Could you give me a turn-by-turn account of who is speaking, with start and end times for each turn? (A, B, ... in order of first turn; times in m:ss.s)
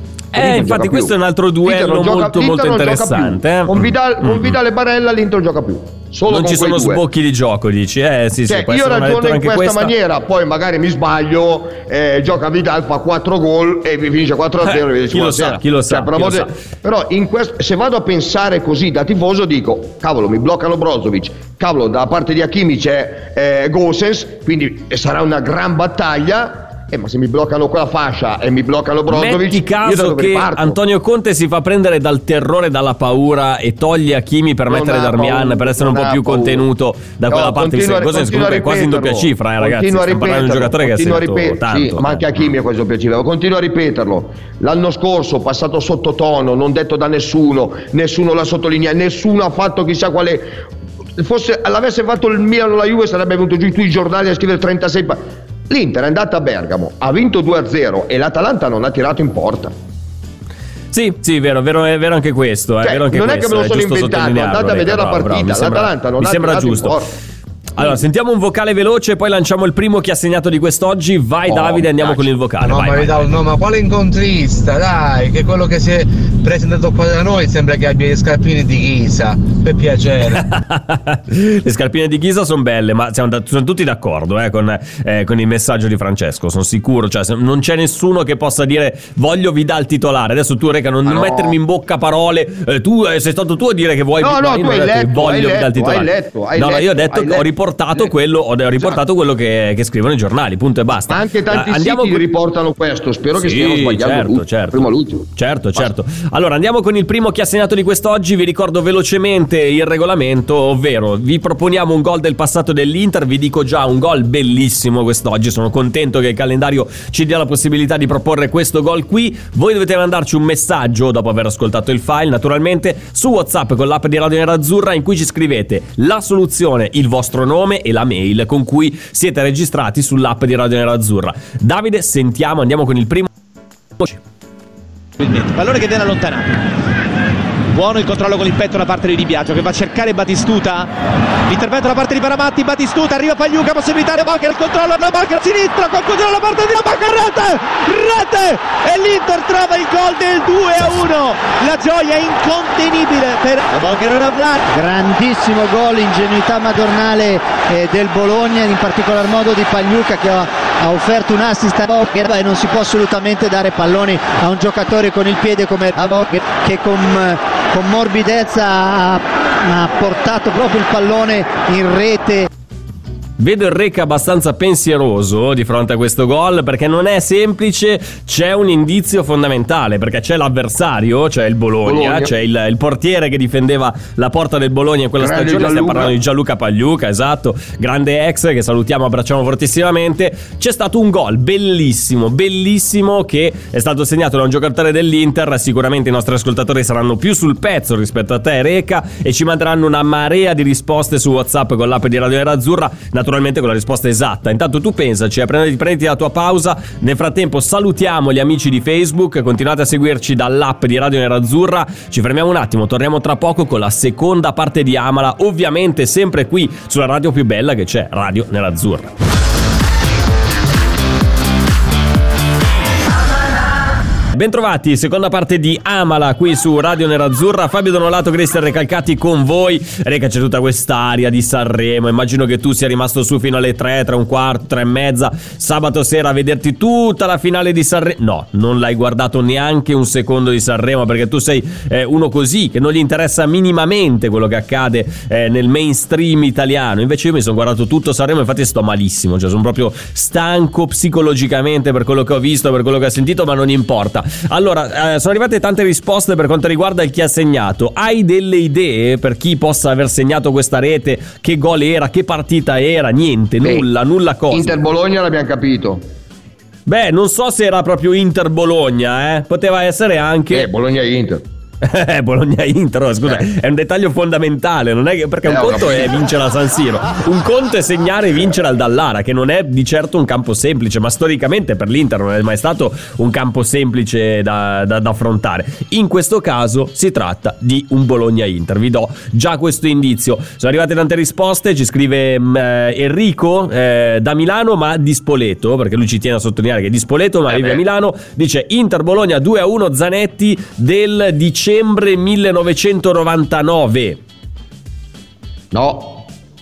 0:00.3-0:04.6 A
0:00.3-0:07.0 B
0:06.3-0:09.9 A
0:08.5-0:30.8 B
0:14.6-0:16.6 A
0:29.1-0:42.2 A
0:34.7-0:36.7 B
0:37.3-0:50.6 B
0:51.2-0:59.7 B
1:00.9-1:07.0 A
1:02.8-1:07.1 B
1:07.8-1:13.3 A
1:11.5-1:12.3 B
1:12.6-1:20.4 C
1:20.3-1:42.2 A
1:31.0-1:31.6 B
1:34.2-1:38.1 B
1:41.1-1:45.9 B
1:43.3-2:13.3 A
2:15.2-2:16.6 D
2:17.7-2:20.9 D
2:21.5-2:34.6 D
2:34.7-2:52.5 E
2:53.4-3:39.1 A
3:01.8-3:02.3 B
3:05.2-3:06.2 B
3:44.3-4:24.8 A
4:24.5-4:26.0 B
4:26.8-4:30.7 A
4:30.5-4:31.4 B
4:31.8-5:04.2 A
4:35.4-4:36.2 B
4:57.5-4:57.8 B
5:05.7-5:06.2 B